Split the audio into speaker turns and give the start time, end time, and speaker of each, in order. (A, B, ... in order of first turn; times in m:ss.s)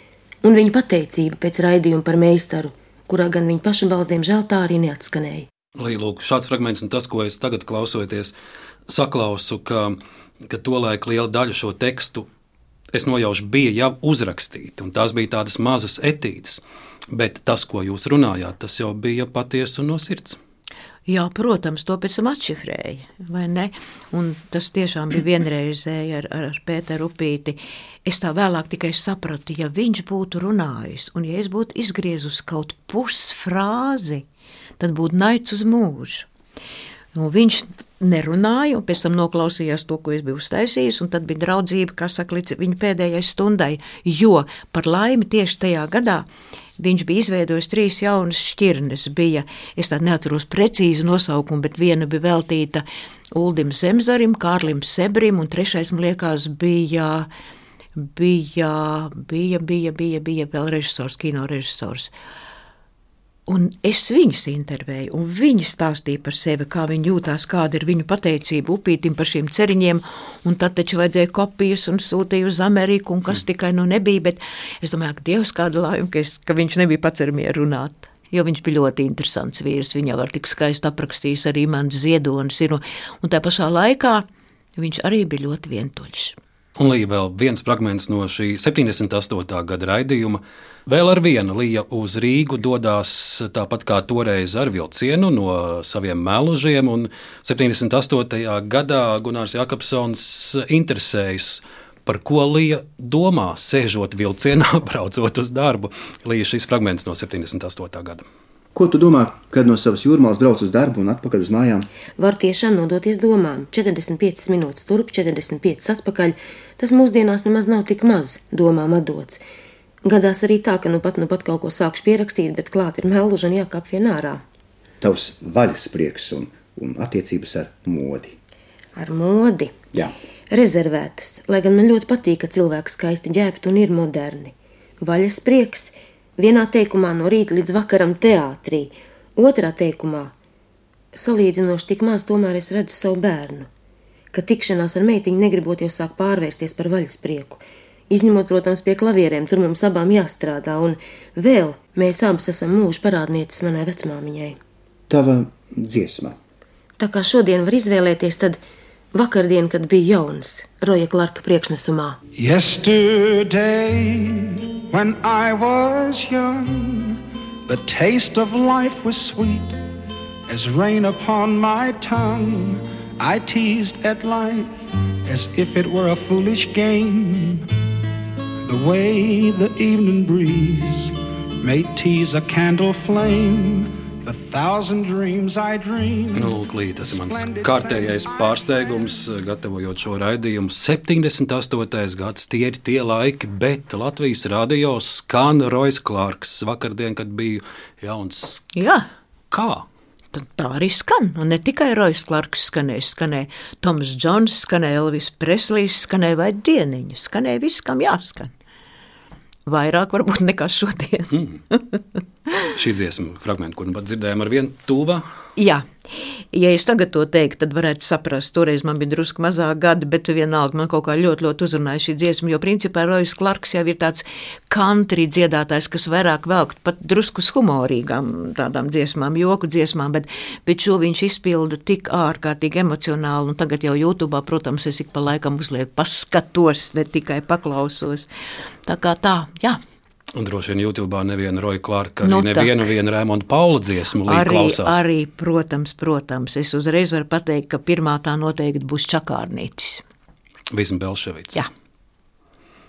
0:00.4-0:05.5 A
0:05.8-0:08.3 B
0:08.9-0:12.3 B
0:12.9-0:20.4 B
0:21.1-0:34.2 C
0:34.8-0:36.3 C
0:37.2-0:46.3 C
0:46.8-0:52.8 C
0:53.4-0:57.3 C
0:58.0-1:02.1 C
1:03.5-1:24.2 C
1:24.8-1:26.4 C
1:26.8-1:48.2 B
1:48.8-1:51.9 D
1:52.2-1:59.4 A
2:00.0-2:04.4 A
2:05.0-2:08.4 D
2:09.0-2:09.7 A
2:10.5-2:20.3 A
2:21.1-2:23.7 A
2:24.3-2:34.6 A
2:35.1-2:36.4 D
2:37.0-2:38.6 A
2:39.1-2:42.2 A
2:42.4-2:49.8 E
2:50.5-2:57.7 E
2:58.7-3:09.0 E
3:06.3-3:18.6 B
3:18.8-3:19.1 C
3:19.5-3:19.9 B
3:20.3-3:28.5 C
3:29.7-3:32.0 C
3:31.3-3:31.6 B
3:32.7-3:35.2 B
3:35.6-3:58.3 C
3:58.8-3:59.8 C
4:00.4-4:05.0 B
4:02.2-4:02.8 C
4:04.3-4:10.0 C
4:10.7-4:11.6 B